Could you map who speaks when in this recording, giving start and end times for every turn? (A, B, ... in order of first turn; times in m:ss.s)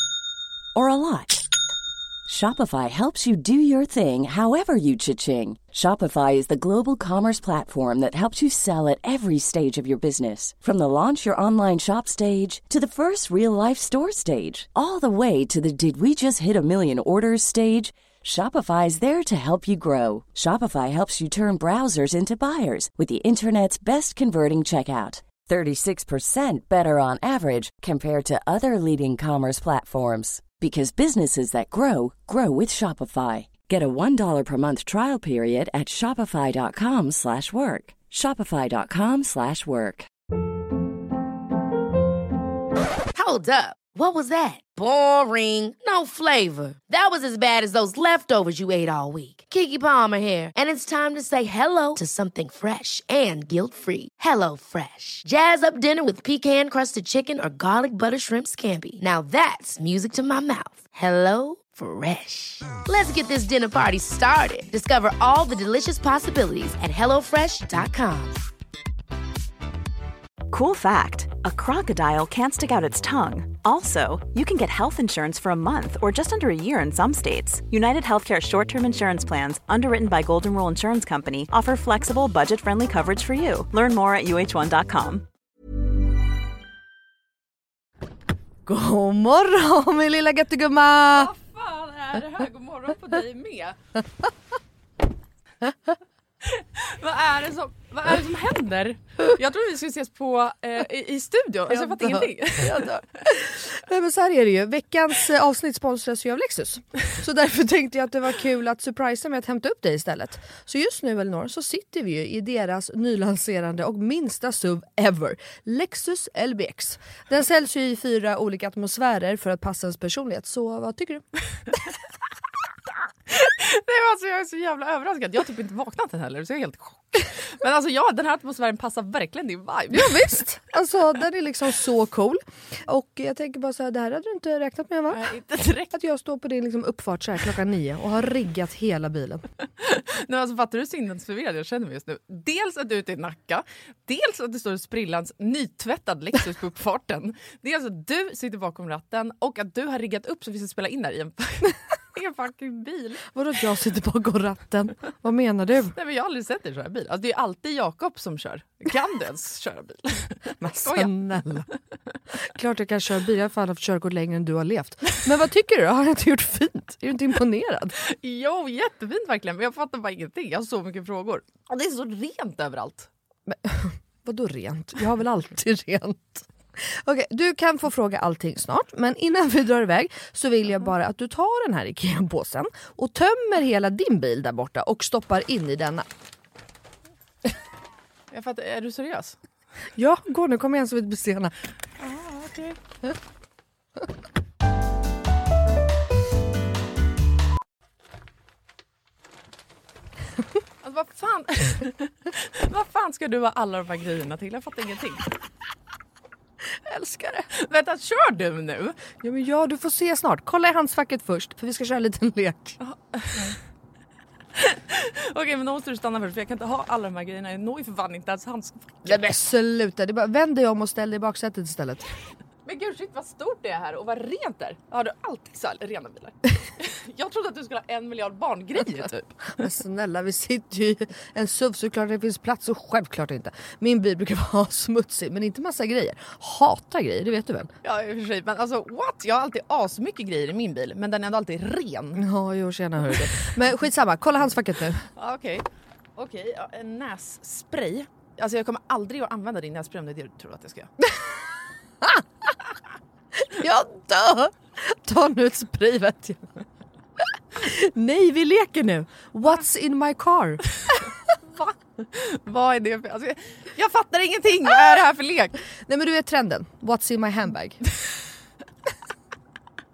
0:00.7-0:01.4 A
0:02.3-0:40.1 A
0:43.1-1:08.4 B
1:10.5-1:25.3 C
1:28.7-1:31.3 D
1:31.1-1:33.8 E
1:36.4-1:43.2 E
1:41.7-2:01.2 D
2:03.3-2:10.4 E
2:09.9-2:15.3 D
2:15.1-2:15.9 E
2:15.9-2:19.5 D
2:19.8-2:33.2 E
2:33.3-2:36.0 D
2:36.0-2:41.6 E
2:40.6-2:41.7 D
2:42.4-2:48.0 D
2:48.0-2:53.1 E
2:53.5-3:06.1 D
3:08.3-3:09.4 E
3:10.0-3:11.5 D
3:12.0-3:12.8 E
3:20.8-3:25.3 E
3:26.9-3:27.5 D
3:27.5-3:29.0 E
3:29.2-3:32.8 D
3:32.8-3:33.6 E
3:34.6-3:39.2 E
3:39.0-3:42.1 D
3:42.6-3:49.3 E
3:49.5-3:57.7 D
3:57.8-4:02.2 E
4:02.2-4:05.1 D
4:03.1-4:03.3 E
4:05.2-4:10.9 E
4:13.4-4:16.5 D
4:17.6-4:21.1 D
4:22.0-4:25.6 E
4:25.8-4:27.8 D